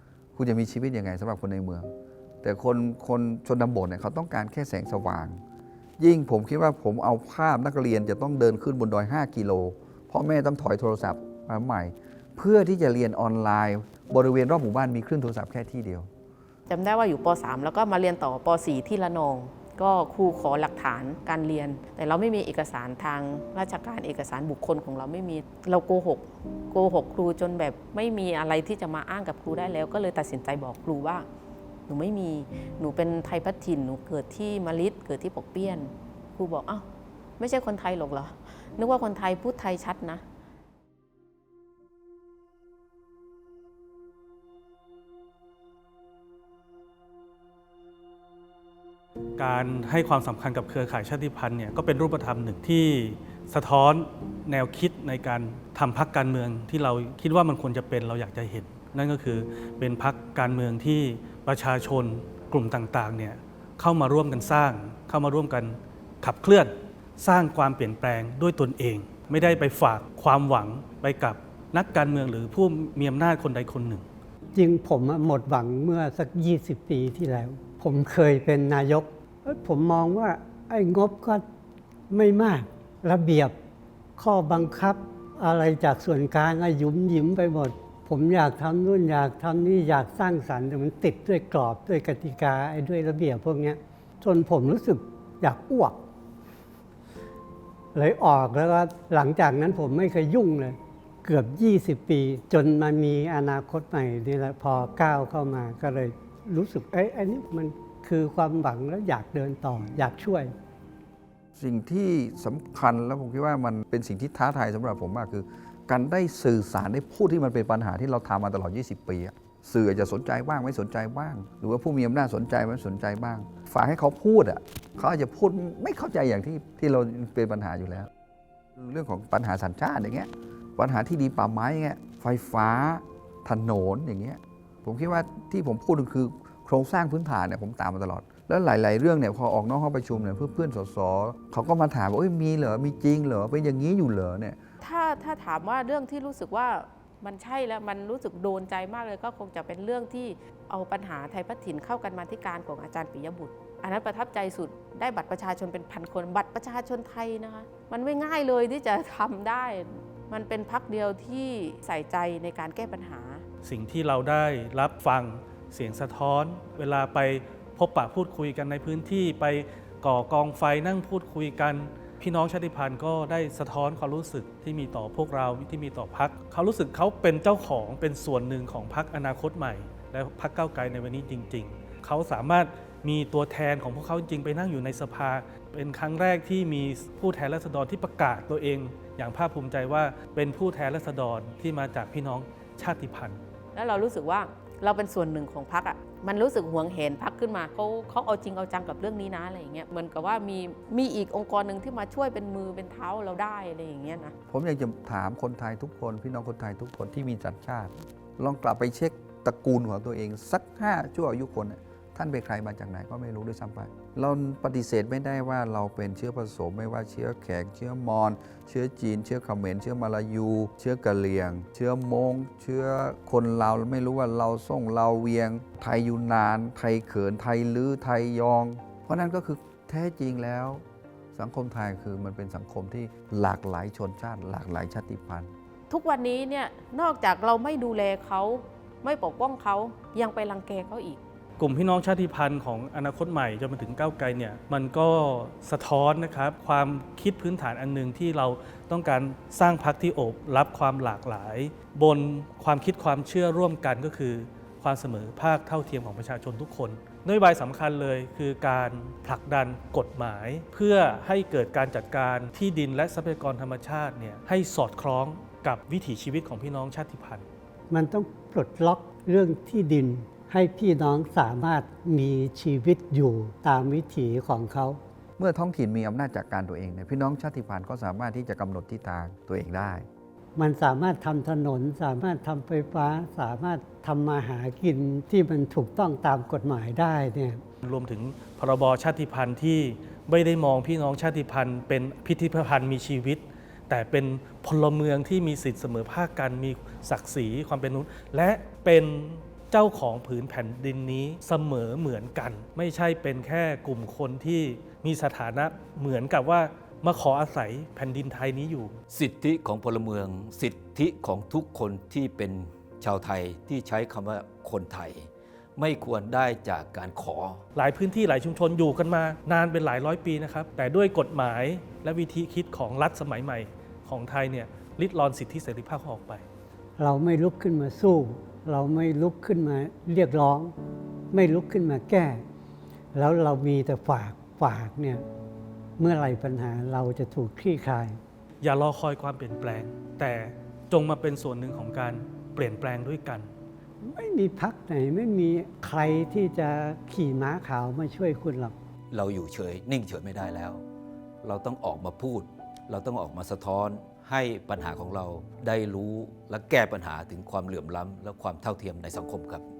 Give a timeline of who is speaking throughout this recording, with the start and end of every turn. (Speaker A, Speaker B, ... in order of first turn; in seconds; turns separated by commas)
Speaker A: 0.3-1.9, Speaker A: 2.4-5.4, Speaker A: 6.0-16.1, Speaker B: 16.7-31.2, Speaker B: 31.9-36.9, Speaker B: 37.4-40.2, Speaker C: 49.4-74.0, Speaker D: 74.5-81.4, Speaker D: 82.1-83.5, Speaker D: 84.2-96.0, Speaker D: 97.9-110.5, Speaker A: 111.6-128.1, Speaker A: 128.8-144.6, Speaker B: 144.8-163.4, Speaker C: 163.6-193.4, Speaker B: 193.8-204.3, Speaker A: 204.5-230.8, Speaker A: 231.3-235.5, Speaker B: 235.9-241.2, Speaker C: 241.6-267.4, Speaker D: 267.9-275.0, Speaker A: 275.4-280.1, Speaker D: 280.6-287.6, Speaker C: 287.8-309.0, Speaker E: 309.1-317.6, Speaker C: 317.8-326.4, Speaker D: 327.0-330.7, Speaker D: 331.3-332.4, Speaker D: 333.1-335.2, Speaker D: 336.0-338.2, Speaker C: 338.6-343.5, Speaker D: 344.0-348.8, Speaker E: 349.1-350.8, Speaker E: 351.4-359.6